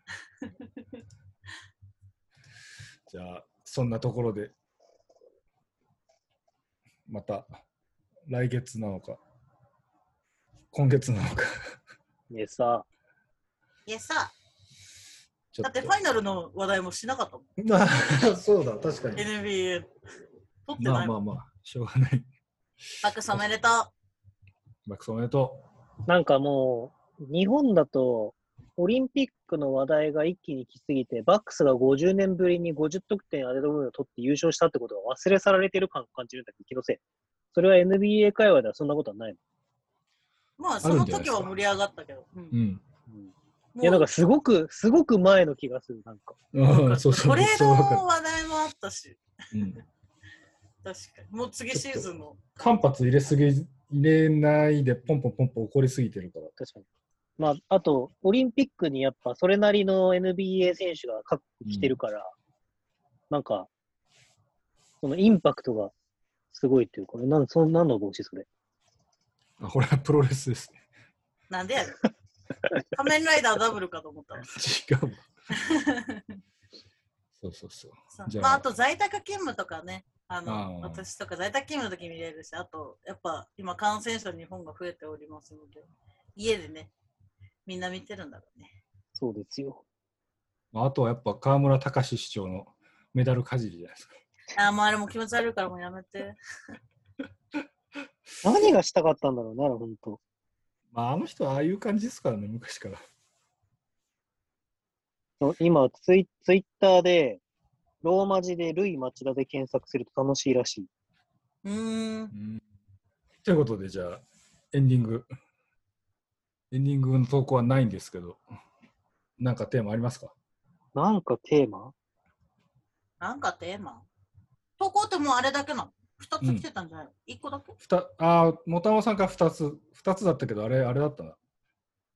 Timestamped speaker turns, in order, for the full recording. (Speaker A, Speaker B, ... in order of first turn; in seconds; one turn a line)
Speaker A: 3.1-4.5
Speaker A: 7.1-7.6
Speaker A: 8.3-9.2
Speaker A: 10.7-11.5
Speaker B: 12.3-12.8
Speaker C: 13.9-14.3
Speaker A: 15.5-15.9
Speaker C: 15.6-17.4
Speaker A: 17.6-19.2
Speaker C: 19.1-19.9
Speaker C: 20.6-21.1
Speaker A: 20.8-22.3
Speaker C: 23.0-23.9
Speaker A: 24.9-25.6
Speaker B: 26.1-37.0
Speaker B: 37.5-39.4
Speaker C: 40.6-42.5
Speaker A: 40.8-41.5
Speaker A: 42.5-42.8
Speaker B: 43.1-46.4
Speaker C: 43.7-44.0
Speaker A: 46.5-48.0
Speaker C: 46.6-49.2
Speaker A: 49.5-49.8
Speaker C: 50.8-52.9
Speaker A: 51.7-56.5
Speaker B: 56.6-56.9
Speaker B: 57.4-62.3
Speaker A: 61.6-62.0
Speaker B: 63.3-63.7
Speaker B: 65.0-65.9
Speaker B: 66.5-68.5
Speaker A: 69.6-70.8
Speaker C: 71.5-72.1
Speaker C: 72.9-74.5
Speaker A: 74.4-75.2
Speaker C: 75.5-76.2
Speaker A: 77.4-78.6
Speaker C: 78.1-86.9
Speaker A: 80.5-81.0
Speaker C: 87.7-88.7
Speaker B: 89.1-89.8
Speaker A: 90.7-94.1
Speaker C: 94.5-96.4
Speaker B: 98.4-100.2
Speaker A: 100.9-103.0
Speaker B: 105.4-107.4
Speaker B: 108.0-110.9
Speaker C: 111.6-112.3
Speaker A: 112.3-112.6
Speaker A: 113.4-115.3
Speaker A: 116.7-118.4
Speaker A: 119.4-120.3
Speaker B: 120.9-121.9
Speaker C: 123.2-124.0
Speaker C: 124.8-127.8
Speaker A: 127.8-131.4